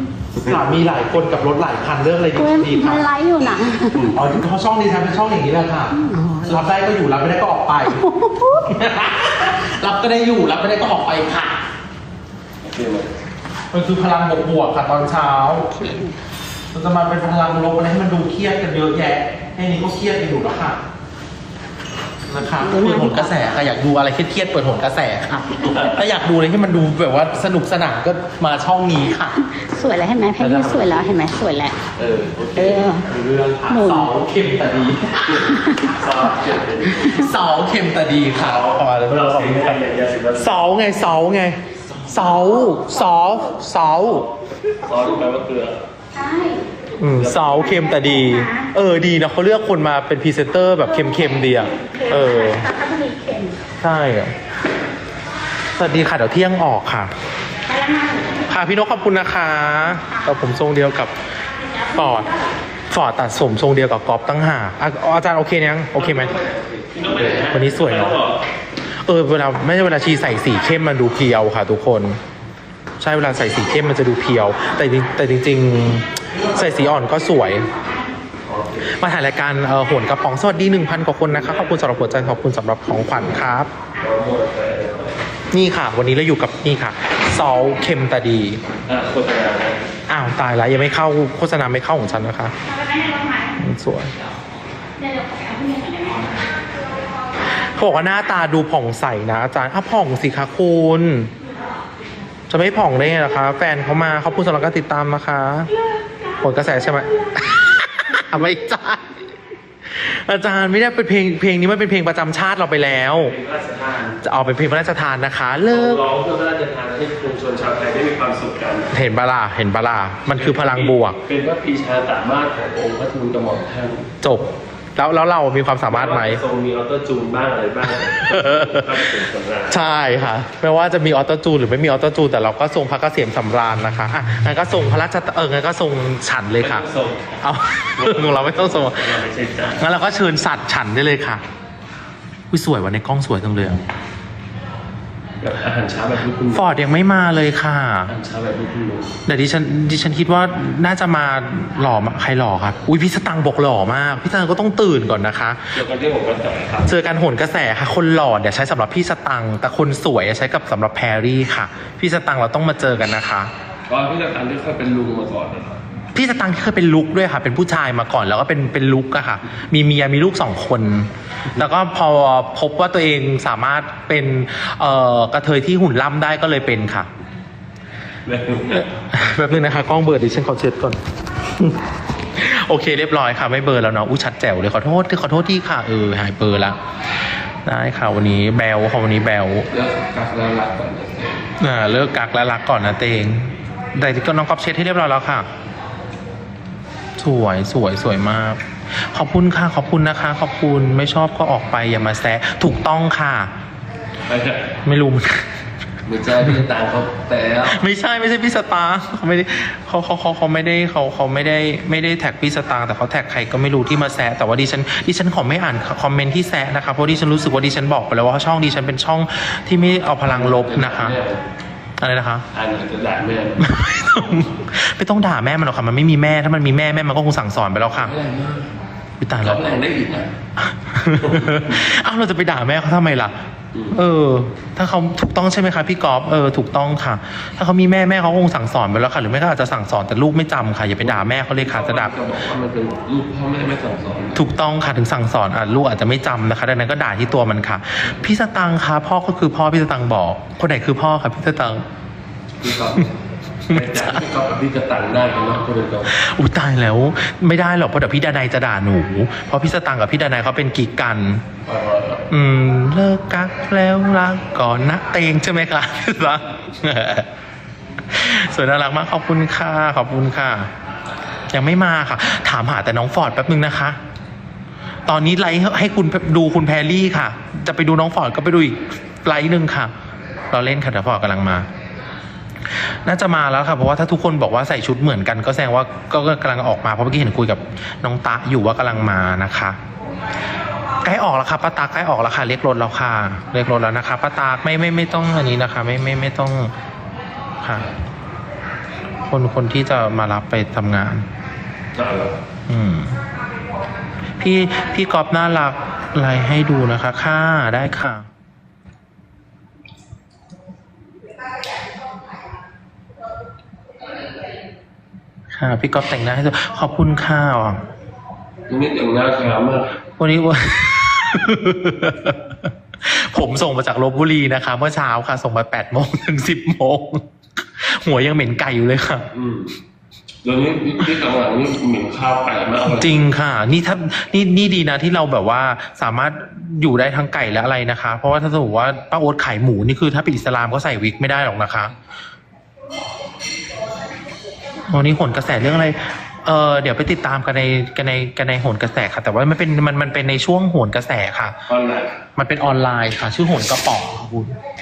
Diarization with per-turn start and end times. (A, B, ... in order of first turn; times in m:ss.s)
0:00.4-0:03.1 A
0:02.4-0:04.0 B
0:04.0-0:04.2 C
0:04.1-0:08.0 A
0:05.9-0:06.6 B
0:07.9-0:08.7 B
0:08.6-0:11.6 A
0:12.6-0:13.1 C
0:13.7-0:15.9 A
0:15.7-0:16.2 B
0:16.7-0:20.8 A
0:22.3-0:29.4 A
0:22.4-0:23.5 B
0:29.4-0:31.8 B
0:30.4-0:31.2 A
0:32.0-0:33.1 C
0:32.6-0:33.1 B
0:33.1-0:35.5 A
0:33.7-0:34.1 B
0:35.3-0:37.1 C
0:35.5-0:36.0 B
0:36.8-0:39.8 A
0:38.4-0:40.5 C
0:40.3-0:44.3 A
0:44.8-0:45.8 C
0:46.1-0:46.7 B
0:47.0-0:52.7 A
0:47.0-0:47.8 C
0:47.5-0:48.7 B
0:50.9-0:53.6 B
0:53.8-0:54.3 A
0:55.8-0:57.1 A
0:57.7-0:58.6 B
0:58.5-1:01.1 A
0:59.8-1:00.5 B
1:01.7-1:02.4 B
1:01.9-1:02.3 A
1:02.9-1:06.4 A
1:06.0-1:08.4 C
1:07.1-1:08.2 A
1:09.0-1:12.2 A
1:13.0-1:17.7 A
1:18.4-1:19.0 C
1:18.8-1:23.7 A
1:21.3-1:22.4 C
1:24.0-1:25.2 C
1:25.5-1:28.6 A
1:28.9-1:29.8 C
1:30.1-1:32.5 A
1:32.6-1:33.6 B
1:33.6-1:34.1 A
1:35.0-1:36.4 B
1:37.5-1:41.3 A
1:42.5-1:45.7 A
1:46.4-1:49.2 A
1:49.9-1:53.3 A
1:53.2-1:54.2 C
1:54.2-1:56.0 A
1:55.7-1:58.9 C
1:58.9-2:01.2 A
2:00.3-2:04.1 C
2:04.2-2:06.4 A
2:05.9-2:09.8 C
2:08.2-2:09.1 A
2:09.7-2:16.9 A
2:16.6-2:17.4 C
2:17.4-2:19.2 A
2:18.0-2:19.9 C
2:19.8-2:21.4 A
2:22.5-2:23.8 A
2:25.4-2:26.7 C
2:26.5-2:28.1 A
2:28.1-2:29.2 C
2:29.3-2:35.7 A
2:35.8-2:36.9 C
2:36.8-2:43.5 A
2:43.9-2:45.8 C
2:46.1-2:57.1 A
2:58.3-2:58.9 C
2:58.9-3:01.0 A
3:02.4-3:06.8 A
3:07.6-3:09.7 A
3:09.7-3:11.5 C
3:11.6-3:15.5 A
3:17.2-3:23.5 A
3:24.3-3:24.7 C
3:24.8-3:25.5 A
3:26.1-3:27.8 C
3:27.6-3:41.2 A
3:40.3-3:41.4 C
3:42.0-3:42.5 A
3:42.5-3:43.7 C
3:43.6-3:48.2 A
3:48.0-3:48.7 C
3:49.2-3:49.7 A
3:49.4-3:50.3 C
3:50.6-3:53.4 A
3:51.3-3:51.7 C
3:53.9-4:02.2 A
4:01.0-4:04.4 C
4:04.4-4:11.8 A
4:12.6-4:16.1 C
4:13.7-4:14.2 A
4:16.1-4:21.4 A
4:21.7-4:22.3 C
4:22.3-4:27.3 A
4:28.1-4:30.7 A
4:31.5-4:34.0 A
4:35.1-4:39.9 A
4:40.5-4:41.7 A
4:42.7-4:49.8 A
4:51.0-4:56.7 A
4:57.6-4:57.9 A
4:59.2-5:01.3 A
5:02.0-5:02.4 C
5:02.7-5:03.2 A
5:04.4-5:08.3 A
5:15.5-5:17.8 A
5:18.7-5:20.0 C
5:20.2-5:29.3 A
5:29.3-5:29.8 C
5:30.4-5:33.2 C
5:32.8-5:41.9 A
5:44.9-5:51.6 A
5:51.7-5:52.2 C
5:52.4-5:54.5 A